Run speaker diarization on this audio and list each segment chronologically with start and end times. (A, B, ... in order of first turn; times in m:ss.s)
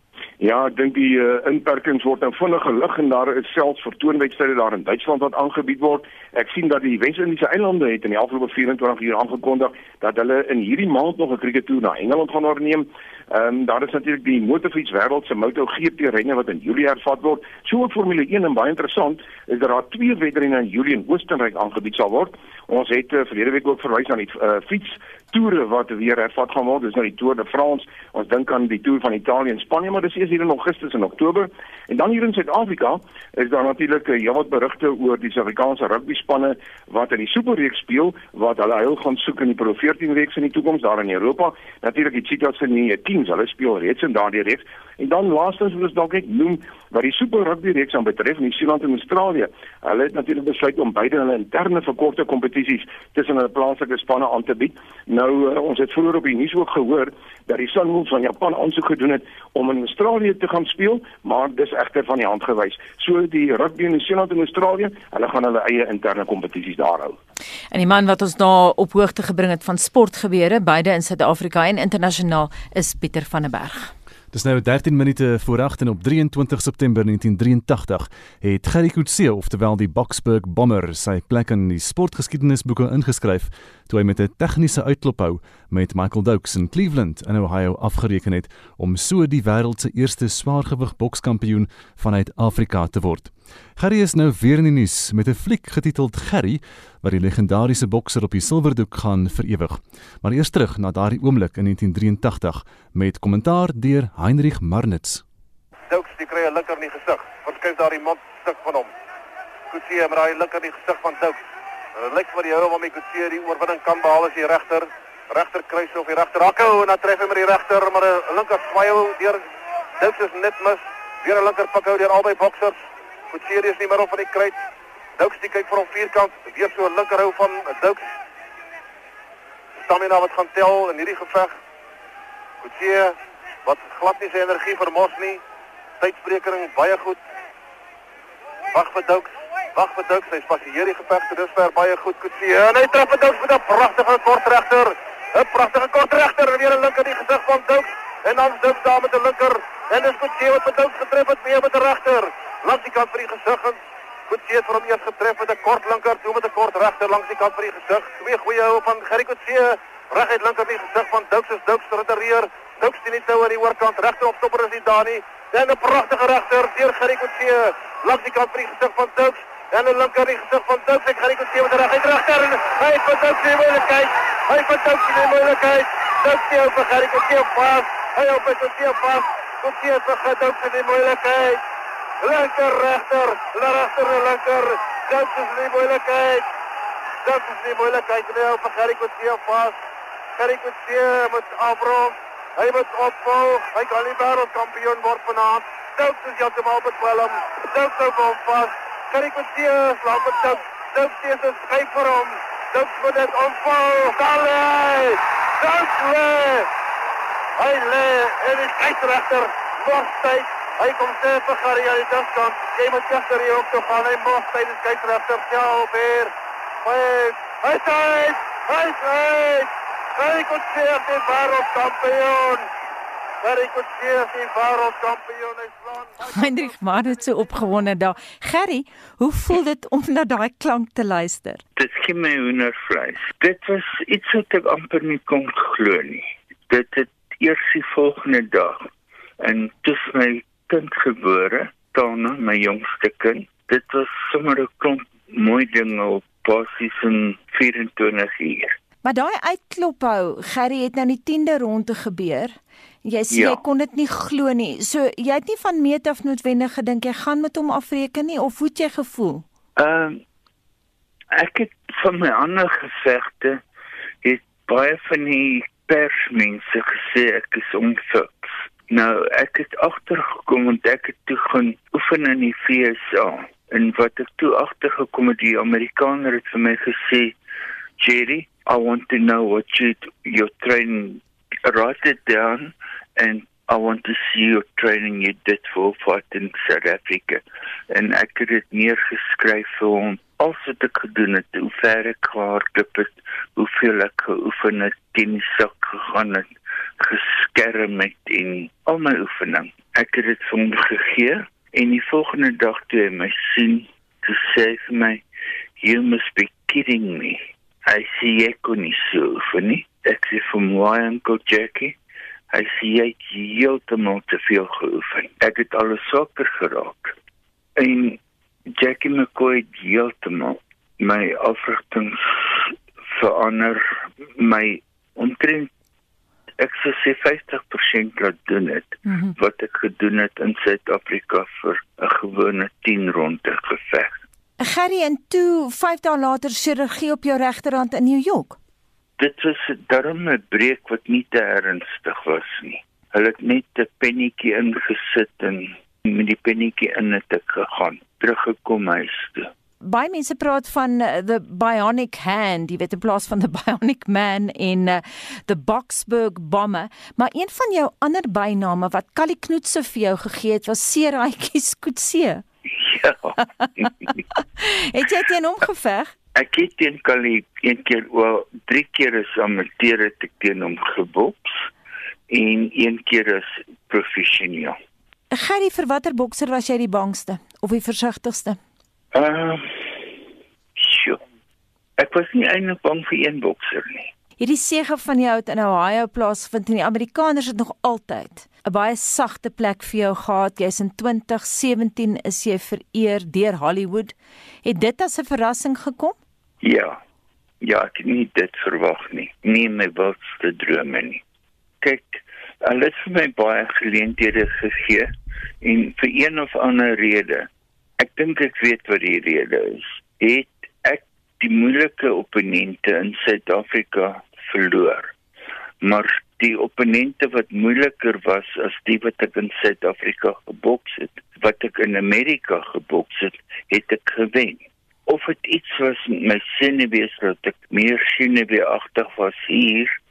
0:00.4-1:07.2 A
1:07.7-1:13.9 B
1:14.3-1:45.2 C
1:45.9-1:48.9 D
1:49.7-1:51.4 D
1:52.0-1:59.4 D
2:00.0-2:02.8 D
2:03.3-2:04.6 D
2:05.2-2:08.0 D
2:09.8-2:11.5 D
2:12.6-2:13.1 D
2:13.6-2:15.4 D
2:16.0-2:17.2 D
2:18.7-3:01.6 D
3:02.2-3:06.4 D
3:07.2-3:09.8 D
3:10.4-3:26.7 D
3:27.6-3:36.3 D
3:36.8-3:42.6 D
3:43.4-3:47.3 D
3:46.2-3:51.6 B
3:51.8-3:58.9 E
3:59.4-4:08.8 E
4:09.0-4:19.4 B
4:13.3-4:13.6 E
4:19.8-4:20.2 E
4:21.4-4:23.6 E
4:24.2-4:37.3 E
4:38.0-4:56.5 E
4:57.0-5:05.2 E
5:05.8-5:11.9 E
5:12.5-5:17.1 E
5:17.8-5:18.2 E
5:18.8-5:23.8 E
5:24.4-5:25.7 E
5:26.6-5:34.2 E
5:34.6-5:38.6 B
5:39.2-5:49.5 E
5:49.8-6:02.4 B
6:02.8-6:03.4 E
6:04.4-6:06.1 B
6:06.3-6:11.6 E
6:12.3-6:14.8 E
6:15.3-6:18.6 B
6:19.1-6:19.7 E
6:20.8-6:21.2 E
6:22.0-6:24.1 E
6:24.4-6:36.2 B
6:36.6-6:37.0 E
6:37.6-6:41.2 E
6:41.8-6:45.1 E
6:45.6-6:47.5 E
6:48.0-6:55.1 E
6:55.8-7:09.9 E